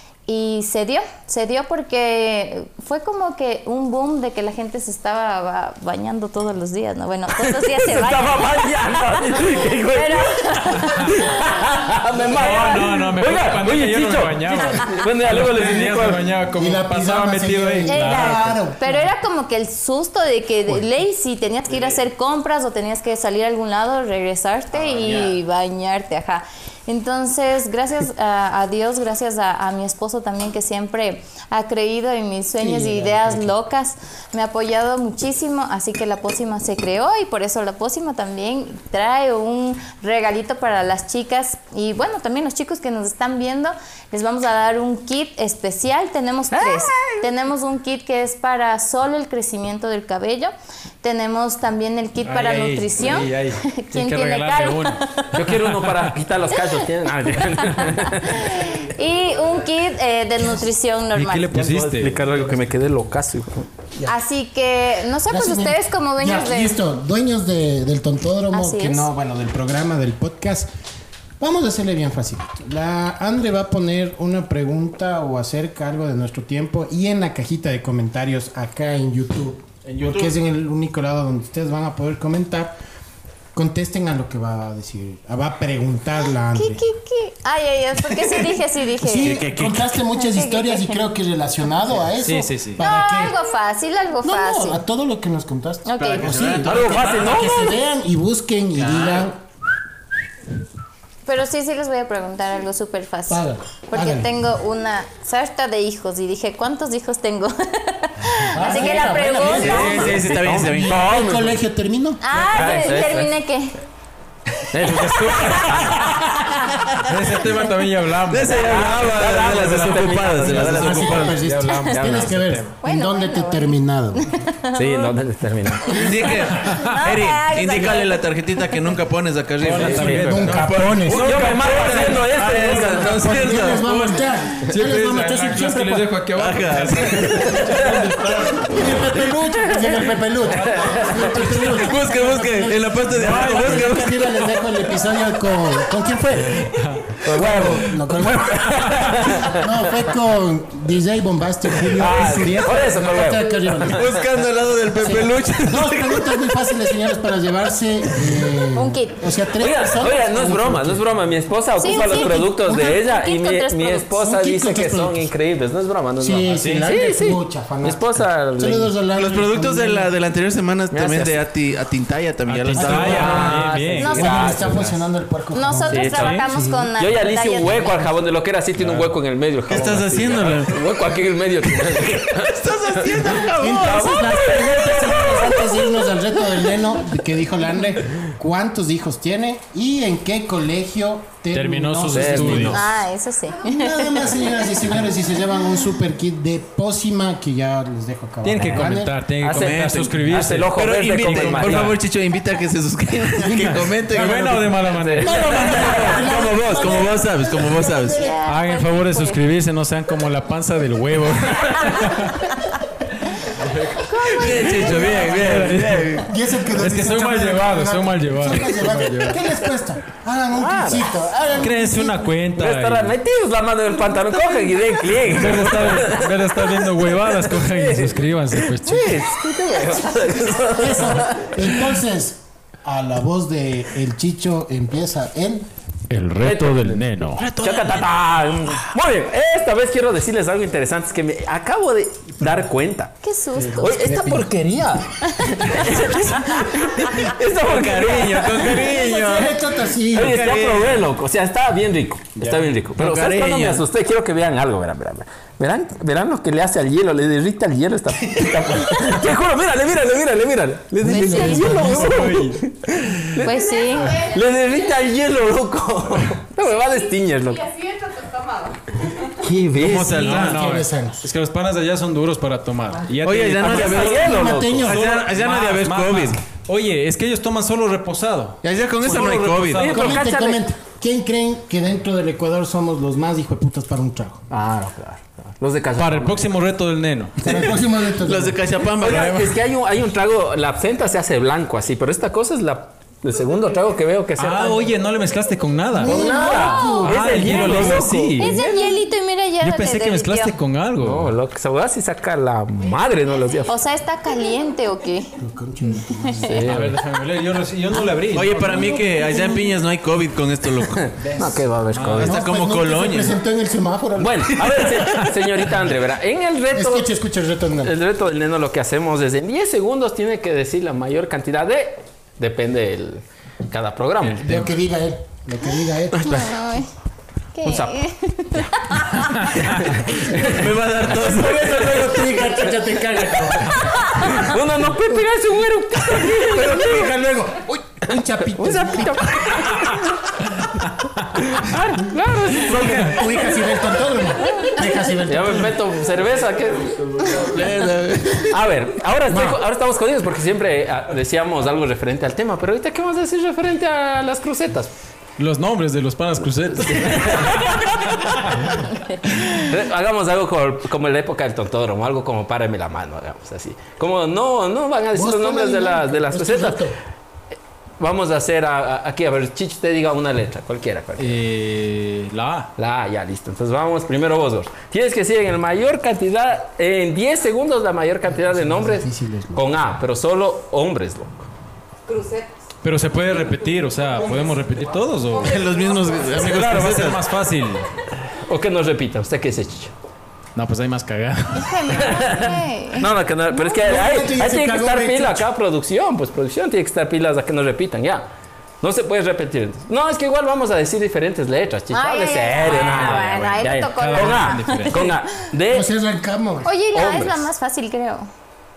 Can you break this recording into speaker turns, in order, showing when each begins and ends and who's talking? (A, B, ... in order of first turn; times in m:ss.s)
0:00.3-0:11.6 A
0:07.4-0:16.2 B
0:12.2-0:18.6 C
0:15.4-0:19.1 D
0:17.9-0:55.4 A
0:24.7-0:25.4 E
0:32.6-0:33.6 D
0:46.5-0:47.2 B
0:52.2-0:55.0 C
0:55.3-0:58.6 B
0:56.6-1:01.5 A
1:01.1-1:02.3 C
1:01.5-1:03.7 B
1:04.1-1:06.8 A
1:05.3-1:10.7 D
1:08.5-1:09.1 A
1:11.4-1:22.8 D
1:19.8-1:20.4 E
1:23.5-1:26.8 D
1:26.5-1:29.5 A
1:29.0-1:33.4 D
1:29.2-1:29.8 E
1:30.1-1:31.0 A
1:32.1-1:32.8 C
1:32.8-1:34.8 A
1:34.2-1:39.4 D
1:35.9-1:36.3 A
1:36.0-1:37.5 E
1:36.6-1:37.8 B
1:38.8-1:39.3 E
1:41.3-1:50.1 A
1:43.3-1:44.3 D
1:48.5-1:52.2 D
1:49.3-1:51.1 E
1:49.6-1:51.6 B
1:52.2-1:53.8 A
1:52.3-1:53.3 B
1:52.6-1:53.0 C
1:54.7-1:56.2 B
1:54.8-1:56.3 C
1:57.0-1:58.6 C
1:57.1-1:57.5 E
1:58.2-2:01.4 E
1:58.5-2:01.4 B
2:00.5-2:04.3 D
2:01.3-2:02.7 C
2:01.9-2:02.3 B
2:02.8-2:05.1 A
2:04.8-2:06.0 B
2:05.9-2:14.0 E
2:06.5-2:08.6 A
2:06.6-2:07.0 C
2:09.6-2:12.7 C
2:09.8-2:10.4 B
2:10.1-2:11.4 D
2:11.1-2:13.2 B
2:12.9-2:16.1 D
2:13.8-2:19.0 C
2:16.4-2:18.5 E
2:17.6-2:18.0 B
2:18.6-2:26.7 D
2:20.5-2:21.6 C
2:20.7-2:21.1 B
2:21.3-2:24.4 E
2:23.1-2:23.9 C
2:26.6-2:27.2 C
2:27.2-2:29.7 B
2:27.3-2:28.6 D
2:29.2-2:34.1 D
2:31.9-2:34.0 B
2:33.9-2:36.3 E
2:35.0-2:41.1 D
2:38.8-2:39.2 A
2:39.6-2:48.9 B
2:41.8-2:44.1 A
2:41.9-2:42.5 D
2:44.2-2:45.3 D
2:46.2-2:50.1 D
2:46.5-2:46.9 C
2:49.2-2:53.8 E
2:50.9-2:51.4 B
2:52.5-2:54.8 C
2:52.8-2:53.4 D
2:52.8-2:54.9 B
2:54.0-2:54.5 A
2:54.0-2:56.9 D
2:55.5-2:58.1 A
2:55.9-2:56.4 B
2:56.1-2:56.4 C
2:57.0-3:05.8 B
2:58.8-2:59.1 C
2:59.7-3:00.8 E
3:02.4-3:04.3 E
3:03.6-3:12.8 D
3:11.5-3:12.9 C
3:12.1-3:12.8 B
3:12.7-3:14.8 A
3:13.6-3:19.2 D
3:18.4-3:22.0 C
3:19.4-3:22.0 B
3:19.6-3:28.3 E
3:23.4-3:26.2 C
3:24.9-3:27.1 B
3:25.2-3:28.4 D
3:28.1-3:29.4 A
3:28.4-3:32.4 C
3:33.6-3:34.0 C
3:34.1-3:35.2 A
3:34.3-3:36.3 E
3:34.4-3:35.8 B
3:34.7-3:36.2 C
3:34.8-3:35.2 D
3:36.2-3:42.4 D
3:36.7-3:39.4 C
3:40.6-3:41.1 B
3:41.6-3:43.1 C
3:42.5-3:51.8 B
3:45.2-3:49.3 C
3:50.7-3:55.7 D
3:56.1-3:57.4 C
3:56.4-3:57.0 B
3:57.4-3:58.1 E
3:57.6-4:03.2 B
4:03.2-4:04.1 A
4:03.6-4:04.5 D
4:03.8-4:09.5 B
4:07.6-4:09.6 E
4:09.1-4:10.4 D
4:10.1-4:27.7 B
4:10.1-4:11.0 E
4:12.5-4:13.8 E
4:21.0-4:22.2 D
4:21.1-4:21.8 A
4:21.5-4:22.6 C
4:23.4-4:24.2 A
4:23.5-4:25.0 F
4:26.7-4:28.8 F
4:29.4-4:30.5 B
4:29.7-4:30.6 E
4:30.0-4:34.1 C
4:30.3-4:31.3 D
4:33.2-4:36.4 E
4:33.6-4:34.9 B
4:33.9-4:35.1 D
4:34.8-4:40.2 C
4:38.6-4:39.9 E
4:39.8-4:40.6 B
4:39.8-4:44.4 D
4:44.5-4:46.5 B
4:46.0-4:47.6 C
4:47.4-4:48.6 D
4:47.5-4:49.6 E
4:49.0-4:54.9 B
4:54.4-4:58.7 C
4:56.0-4:57.5 D
4:56.0-4:58.5 B
4:56.2-4:57.1 A
4:57.4-4:58.2 E
4:58.4-5:00.6 A
4:59.6-5:01.3 C
5:01.0-5:03.7 B
5:03.7-5:05.3 A
5:05.4-5:06.7 D
5:06.2-5:06.6 A
5:06.5-5:07.0 B
5:06.6-5:08.9 C
5:08.3-5:11.1 E
5:08.7-5:09.0 D
5:10.9-5:12.4 B
5:11.2-5:12.3 C
5:12.2-5:13.4 E
5:12.2-5:14.9 D
5:14.2-5:17.1 B
5:16.7-5:17.9 D
5:17.8-5:24.6 B
5:24.4-5:26.4 D
5:26.2-5:26.9 A
5:27.6-5:29.5 A
5:27.6-5:28.0 B
5:29.4-5:29.7 C
5:29.5-5:30.7 B
5:30.4-5:32.2 E
5:31.2-5:37.2 B
5:31.3-5:34.4 D
5:36.2-5:39.7 D
5:38.4-5:40.4 B
5:41.4-5:43.7 B
5:42.5-5:45.8 D
5:45.2-5:47.6 B
5:47.2-5:48.6 E
5:48.4-5:54.9 B
5:55.4-5:59.6 C
5:56.8-5:58.4 B
5:59.5-6:06.9 B
6:05.1-6:07.0 D
6:08.0-6:11.4 B
6:11.2-6:12.7 C
6:12.8-6:21.5 B
6:18.3-6:19.7 D
6:22.1-6:22.6 F
6:22.8-6:25.6 C
6:23.6-6:26.5 F
6:25.4-6:27.2 E
6:26.4-6:27.9 C
6:26.4-6:27.0 B
6:28.3-6:29.9 B
6:30.6-6:32.2 C
6:31.6-6:33.1 A
6:32.0-6:38.3 B
6:33.6-6:35.5 D
6:38.8-6:45.9 B
6:41.9-6:45.1 A
6:42.8-6:45.1 C
6:45.7-6:46.7 D
6:46.6-6:48.3 A
6:46.9-6:47.5 B